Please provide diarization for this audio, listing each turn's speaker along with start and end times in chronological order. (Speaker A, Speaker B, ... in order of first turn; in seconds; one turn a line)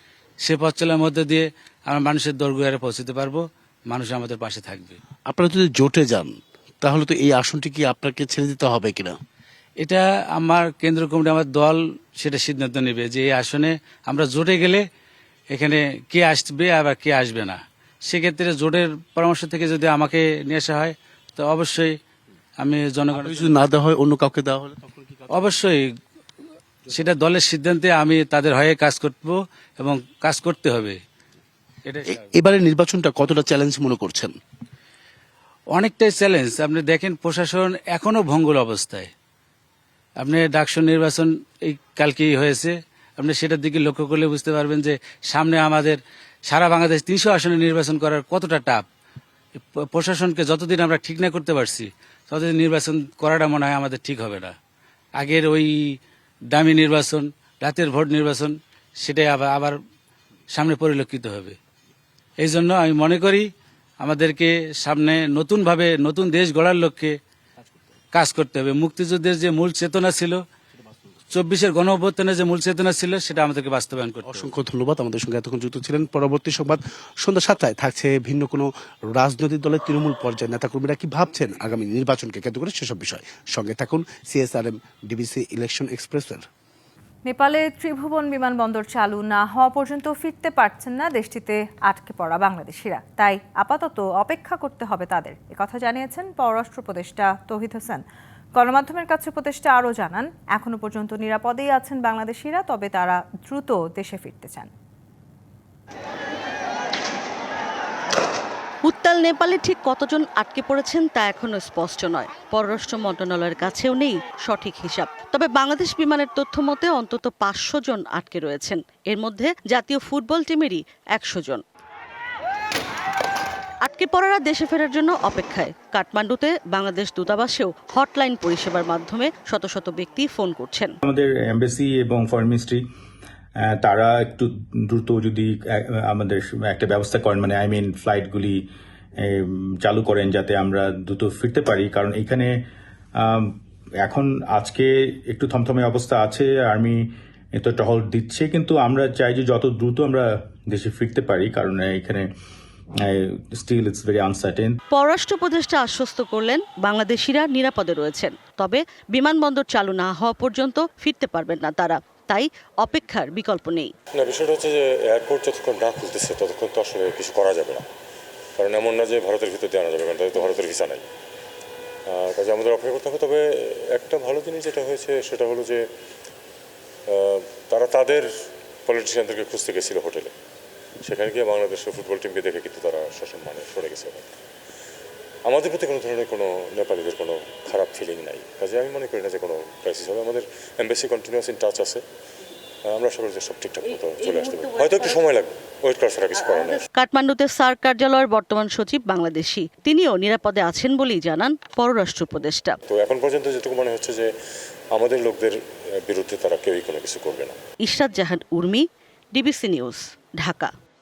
Speaker A: 0.4-5.0
Speaker B: 5.3-9.2
Speaker A: 9.8-14.8
Speaker A: 15.5-21.9
Speaker A: 22.6-23.7
Speaker B: 23.1-25.3
Speaker A: 25.3-25.8
Speaker A: 26.9-31.0
Speaker A: 31.9-32.2
Speaker B: 32.1-34.4
Speaker A: 35.8-39.1
Speaker A: 40.2-48.9
Speaker A: 49.9-54.5
Speaker A: 55.2-56.0
Speaker A: 56.5-59.8
Speaker A: 60.5-61.6
Speaker A: 62.4-63.5
Speaker A: 64.0-67.2
Speaker A: 68.1-70.4
Speaker A: 71.3-74.5
Speaker B: 74.2-86.5
Speaker C: 87.2-98.0
Speaker C: 98.6-104.7
Speaker D: 108.8-121.6
Speaker D: 123.8-130.9
Speaker E: 131.0-132.8
Speaker E: 133.6-138.6
Speaker E: 139.2-142.6
Speaker E: 143.2-152.3
Speaker E: 153.0-154.8
Speaker D: 154.9-163.9
Speaker F: 164.2-167.8
Speaker F: 168.6-171.1
Speaker F: 172.1-175.8
Speaker F: 177.1-178.3
Speaker F: 178.9-180.3
Speaker F: 181.1-184.3
Speaker F: 185.4-192.0
Speaker F: 192.9-196.8
Speaker D: 196.9-202.8
Speaker F: 202.9-204.3
Speaker F: 204.9-207.6
Speaker D: 207.8-210.7